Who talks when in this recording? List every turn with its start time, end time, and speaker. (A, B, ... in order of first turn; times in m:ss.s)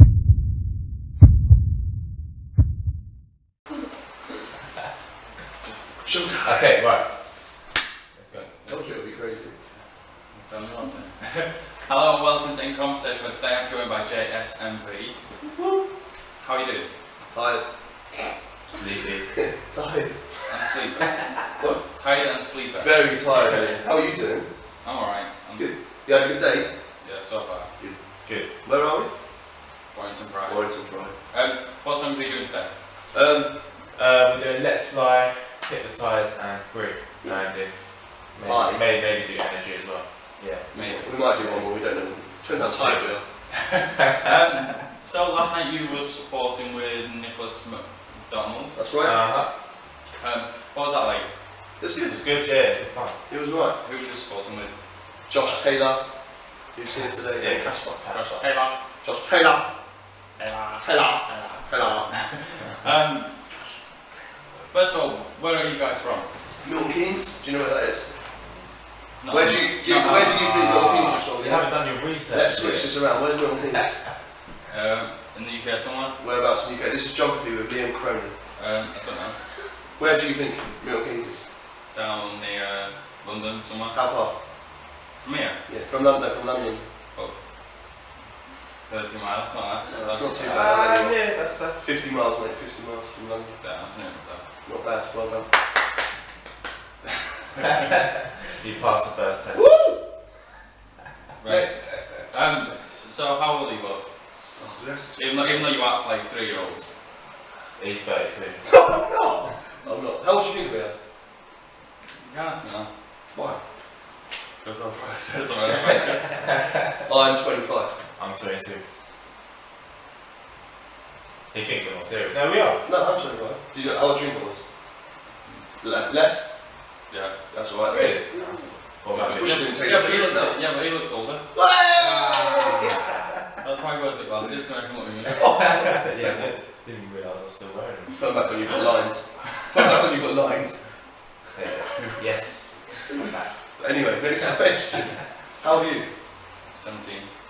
0:05.6-0:06.1 A
0:06.0-0:06.8 B
0:06.4-0:08.8 C
0:08.3-0:15.3 A
0:08.6-0:09.6 B
0:15.4-0:15.9 B
0:16.4-0:16.9 A
0:17.3-0:18.4 B
0:18.7-0:19.5 C
0:19.6-0:20.5 B
0:20.5-0:23.5 A
0:21.6-0:24.5 B
0:24.8-0:25.7 A
0:25.6-0:27.0 B
0:27.0-0:27.8 A
0:27.8-0:29.1 B
0:28.2-0:28.5 C
0:29.9-0:32.8 A
0:30.5-0:31.2 B
0:33.1-0:33.6 B
0:33.9-0:40.7 C
0:37.2-0:37.6 B
0:38.4-0:38.8 B
0:40.7-0:43.3 B
0:40.7-0:41.7 A
0:42.6-0:43.8 C
0:44.1-0:48.8 A
0:48.7-0:49.2 B
0:49.0-0:49.5 C
0:50.2-0:51.3 A
0:51.8-0:52.4 B
0:52.1-0:53.2 C
0:53.3-0:53.8 B
0:53.8-0:55.8 A
0:55.3-0:58.1 B
0:57.4-0:58.7 C
0:58.1-0:58.8 A
0:59.0-1:00.0 B
1:00.4-1:03.7 A
1:00.8-1:02.2 B
1:04.7-1:06.5 A
1:06.6-1:08.5 B
1:09.2-1:11.2 A
1:09.3-1:14.1 B
1:11.3-1:13.6 C
1:14.7-1:16.2 A
1:16.2-1:18.4 B
1:18.6-1:19.7 A
1:20.0-1:21.5 B
1:21.9-1:24.2 A
1:23.9-1:24.4 B
1:25.2-1:25.6 A
1:25.7-1:26.9 B
1:27.1-1:27.5 A
1:28.9-1:30.6 A
1:29.9-1:33.6 B
1:30.4-1:31.9 C
1:33.6-1:34.4 A
1:34.6-1:35.6 B
1:38.5-1:40.0 C
1:39.5-1:40.0 B
1:41.4-1:44.6 A
1:41.5-1:41.8 C
1:44.6-1:45.8 B
1:45.1-1:46.9 A
1:47.8-1:48.9 C
1:48.7-1:51.0 B
1:52.2-1:52.9 A
1:53.3-1:53.6 B
1:54.6-1:56.6 A
1:57.0-1:57.9 B
1:58.1-1:58.8 C
2:01.5-2:03.1 C
2:02.8-2:04.6 B
2:05.4-2:05.7 A
2:05.8-2:10.8 B
2:07.1-2:07.4 A
2:07.9-2:09.7 C
2:09.1-2:11.5 A
2:11.5-2:13.2 B
2:12.0-2:12.9 C
2:13.6-2:15.7 A
2:15.4-2:18.8 C
2:15.7-2:16.4 B
2:18.1-2:21.5 B
2:21.5-2:24.4 C
2:23.8-2:26.1 B
2:26.7-2:27.3 A